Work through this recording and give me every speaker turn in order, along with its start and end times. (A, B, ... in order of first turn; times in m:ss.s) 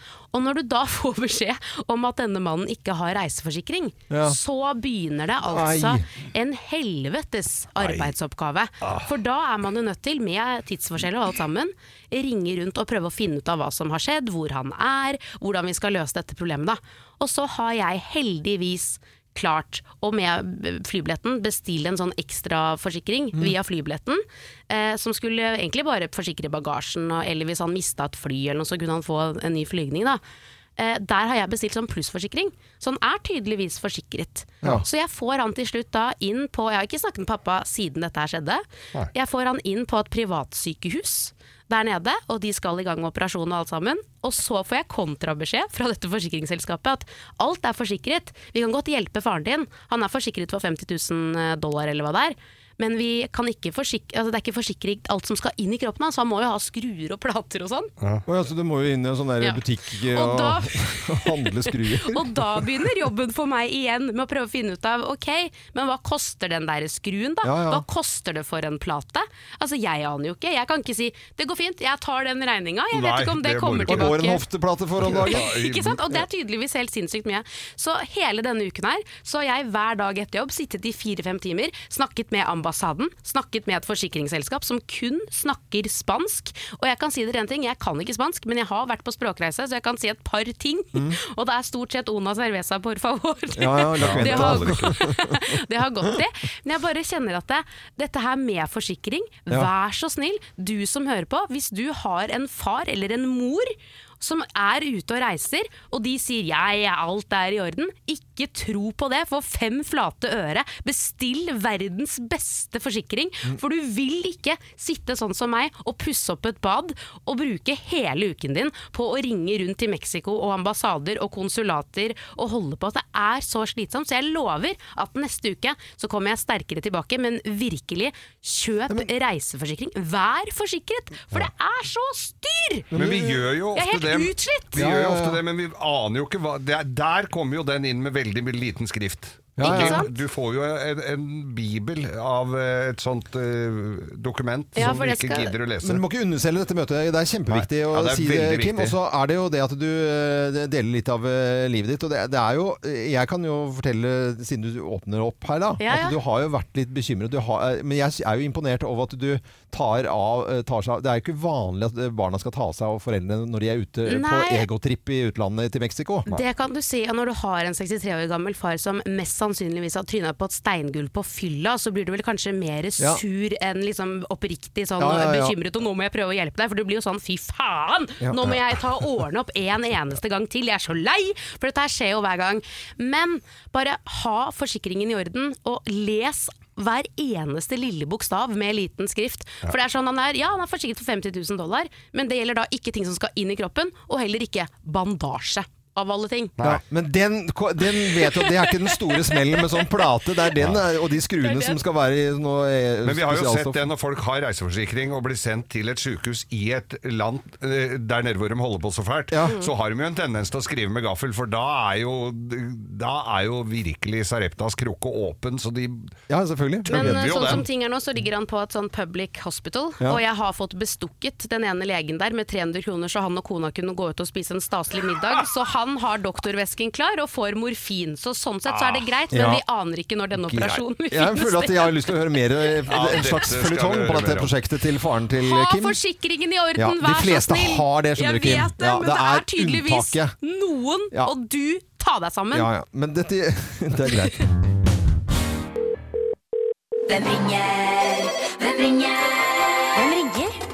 0:00.3-0:30.2 A
0:04.1-0:04.4 B
0:05.5-0:06.0 B
0:07.8-0:08.1 C
0:08.8-0:09.1 C
0:30.8-0:57.9 A
0:58.0-0:58.2 C
0:58.3-1:02.6 B
0:59.4-1:14.4 A
1:07.4-1:07.8 B
1:12.9-1:14.2 C
1:13.9-1:15.4 B
1:15.0-1:16.2 C
1:15.0-2:12.9 A
1:33.6-1:35.4 B
1:34.0-1:35.0 C
2:12.9-2:13.5 B
2:12.9-2:26.0 C
2:13.8-2:14.8 A
2:14.8-2:15.4 B
2:19.6-2:20.0 B
2:19.6-2:20.1 A
2:24.8-2:25.6 A
2:25.8-2:46.4 B
2:27.5-2:29.0 C
2:35.8-2:36.2 A
2:44.1-2:44.7 A
2:46.3-3:16.6 A
2:55.0-2:55.6 B
2:58.2-2:58.5 B
3:16.6-3:23.9 B
3:18.0-3:20.0 A
3:21.4-3:21.8 A
3:23.0-3:36.2 C
3:29.3-3:29.6 B
3:36.3-3:37.6 B
3:36.8-3:37.7 C
3:36.9-3:52.2 A
3:48.6-3:49.1 C
3:49.3-3:49.6 B
3:50.4-3:56.0 B
3:52.9-3:54.6 C
3:55.4-4:02.7 A
3:56.8-4:00.3 B
4:02.5-4:04.5 B
4:07.1-4:10.4 D
4:10.0-4:10.5 A